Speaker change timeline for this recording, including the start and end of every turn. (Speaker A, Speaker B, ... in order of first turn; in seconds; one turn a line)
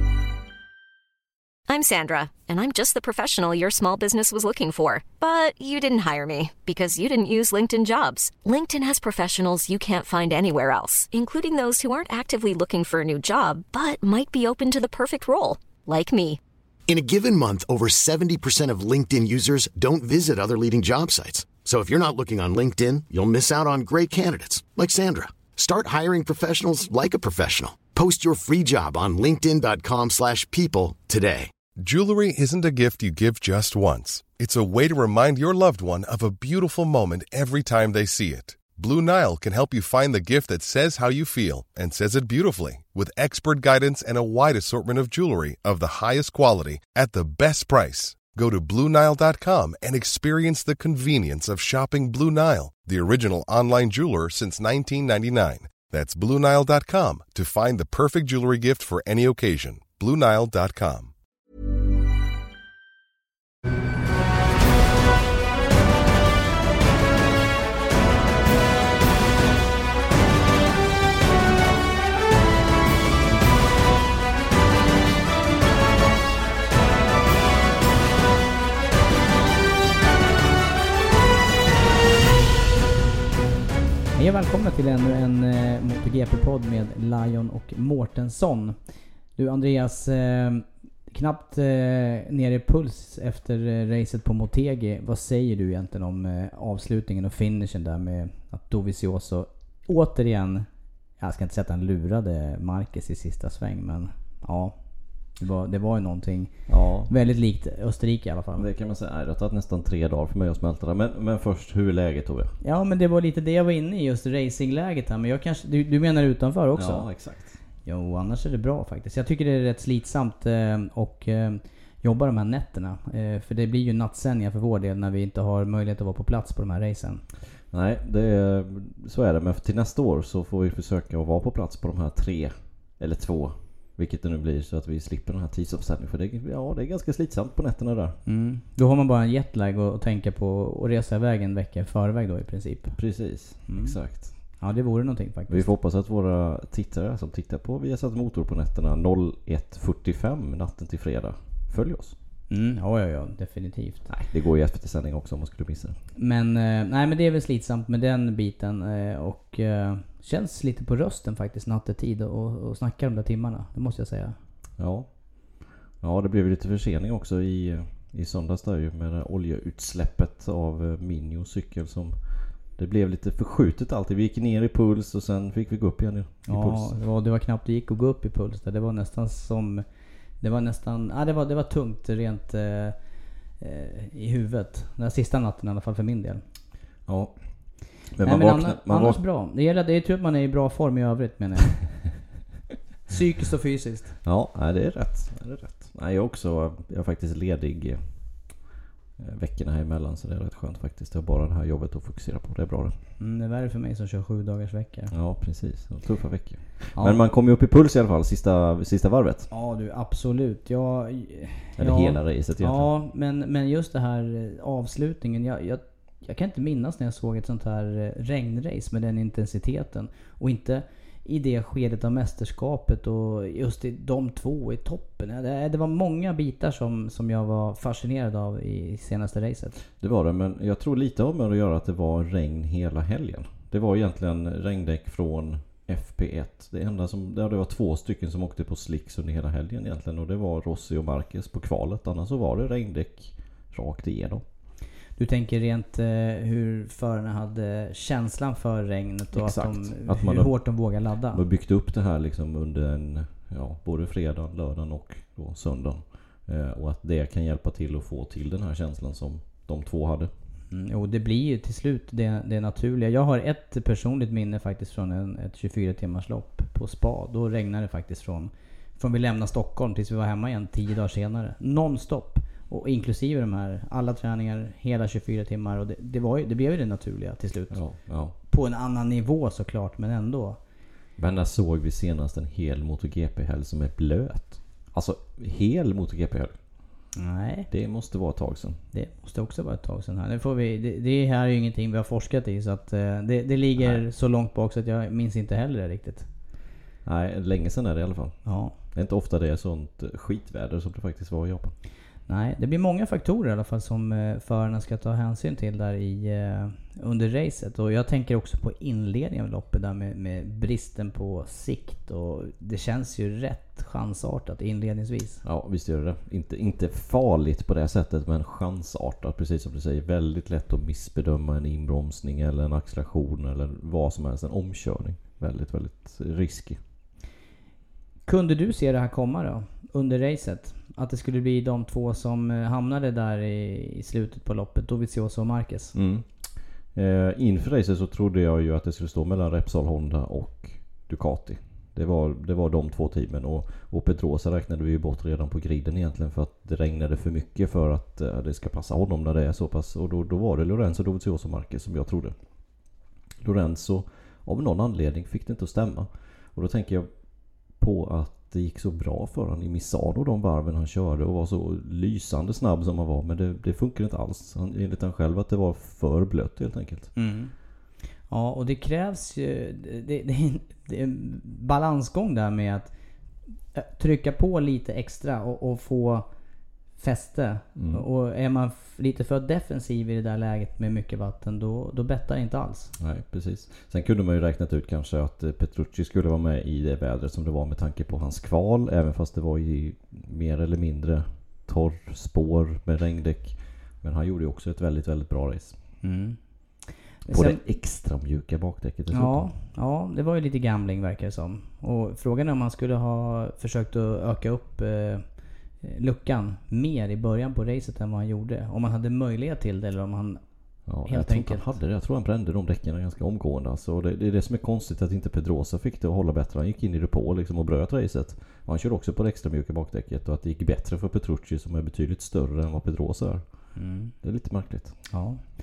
Speaker A: 1.7-16.4
Speaker B: 16.9-31.5
Speaker C: 31.8-61.1
Speaker D: 84.1-88.8
Speaker D: 89.3-100.7
Speaker D: 101.2-104.8
Speaker D: 105.4-106.5
Speaker E: 106.7-107.1
Speaker D: 107.1-108.7
Speaker E: 108.5-112.5
Speaker D: 112.6-117.1
Speaker E: 116.8-117.6
Speaker D: 117.8-127.2
Speaker E: 127.7-138.2
Speaker D: 138.2-143.0
Speaker E: 142.9-144.3
Speaker D: 143.7-143.9
Speaker D: 144.6-145.7
Speaker E: 145.5-152.2
Speaker D: 152.5-154.1
Speaker E: 154.1-156.0
Speaker D: 156.2-164.4
Speaker E: 164.8-165.1
Speaker E: 166.0-172.2
Speaker E: 172.8-176.9
Speaker D: 176.5-179.8
Speaker D: 180.4-183.0
Speaker D: 183.6-186.4
Speaker E: 187.1-187.3
Speaker E: 188.1-189.2
Speaker D: 188.2-191.8
Speaker D: 193.1-194.2
Speaker E: 194.2-198.6
Speaker E: 199.2-203.0
Speaker D: 203.2-205.1
Speaker E: 205.1-209.5
Speaker D: 206.9-207.2
Speaker D: 209.5-229.8
Speaker E: 211.8-212.9
Speaker E: 230.0-244.4
Speaker D: 245.2-251.4
Speaker E: 249.3-250.6
Speaker E: 251.3-260.3
Speaker D: 260.7-277.8
Speaker E: 277.7-278.3
Speaker D: 278.4-280.6
Speaker E: 281.2-286.6
Speaker D: 287.1-287.7
Speaker E: 287.7-288.8
Speaker D: 288.9-296.3
Speaker E: 293.8-294.0
Speaker E: 297.0-301.8
Speaker D: 298.4-298.7
Speaker D: 302.3-315.4
Speaker E: 315.4-326.8
Speaker D: 328.2-335.9
Speaker E: 335.9-336.3
Speaker E: 336.9-352.3
Speaker E: 353.4-357.1
Speaker E: 357.8-367.1
Speaker D: 367.1-367.5
Speaker D: 368.3-372.9
Speaker D: 373.7-376.3
Speaker D: 377.0-382.9
Speaker E: 377.8-378.0
Speaker E: 383.0-395.8
Speaker D: 396.0-397.6
Speaker E: 397.3-399.5
Speaker D: 399.1-405.2
Speaker D: 405.8-410.4
Speaker E: 410.9-423.4
Speaker D: 411.0-411.6
Speaker D: 423.7-424.1
Speaker E: 424.2-424.9
Speaker D: 425.1-425.4